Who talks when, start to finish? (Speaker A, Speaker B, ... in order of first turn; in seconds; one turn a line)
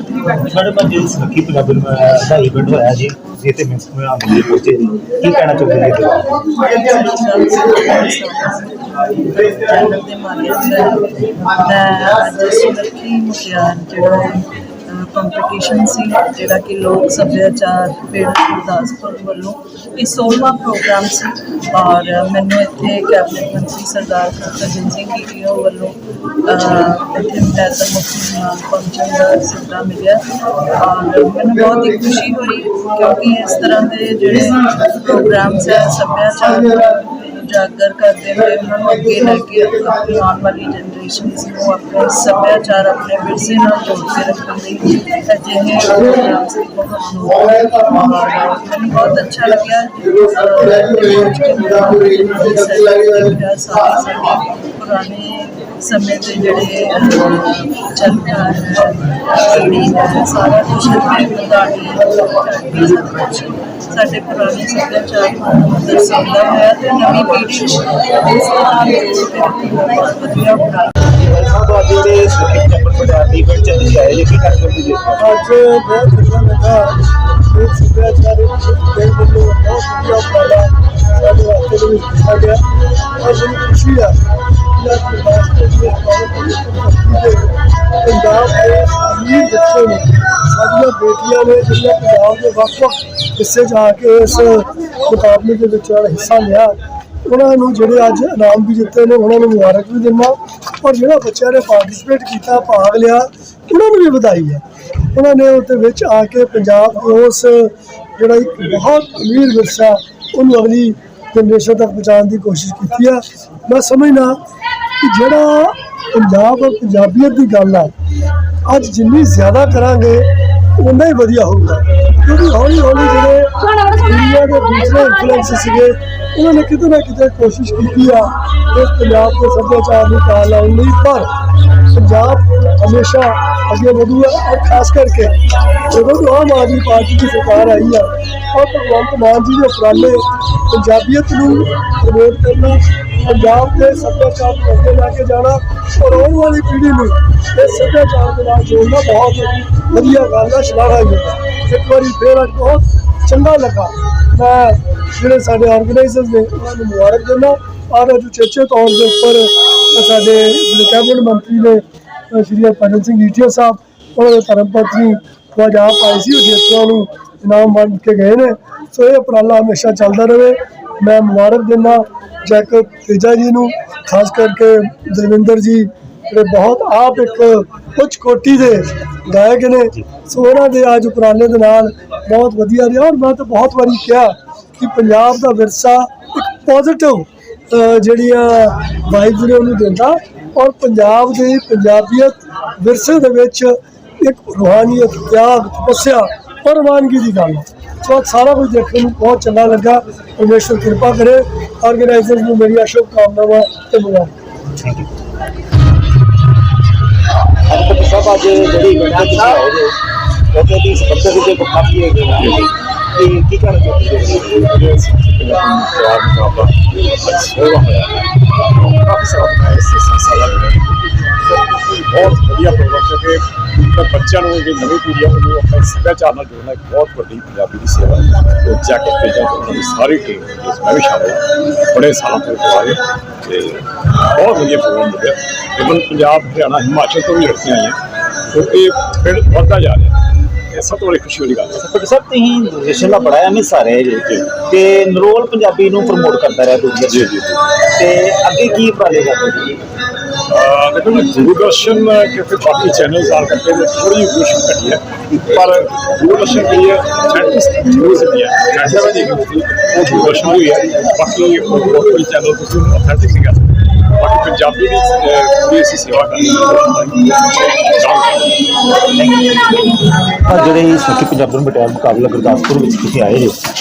Speaker A: 0.3-6.5
Speaker B: 6.6-30.2
Speaker B: 30.7-70.9
Speaker A: 71.1-75.2
Speaker C: 75.2-77.0
Speaker C: 77.5-82.6
Speaker C: 83.2-84.2
Speaker C: 84.8-104.6
Speaker C: 105.1-114.4
Speaker C: 115.0-117.9
Speaker C: 118.7-123.5
Speaker C: 124.0-131.3
Speaker C: 131.9-135.3
Speaker C: 135.9-204.3
Speaker A: 204.8-205.1
Speaker A: 207.7-210.0
Speaker A: 210.5-212.6
Speaker D: 212.4-212.7
Speaker A: 213.1-214.7
Speaker D: 214.7-238.0
Speaker D: 238.5-240.2
Speaker D: 240.7-241.8
Speaker A: 241.8-249.8
Speaker D: 247.1-247.5
Speaker D: 250.5-268.4
Speaker A: 269.2-269.7
Speaker A: 270.4-273.6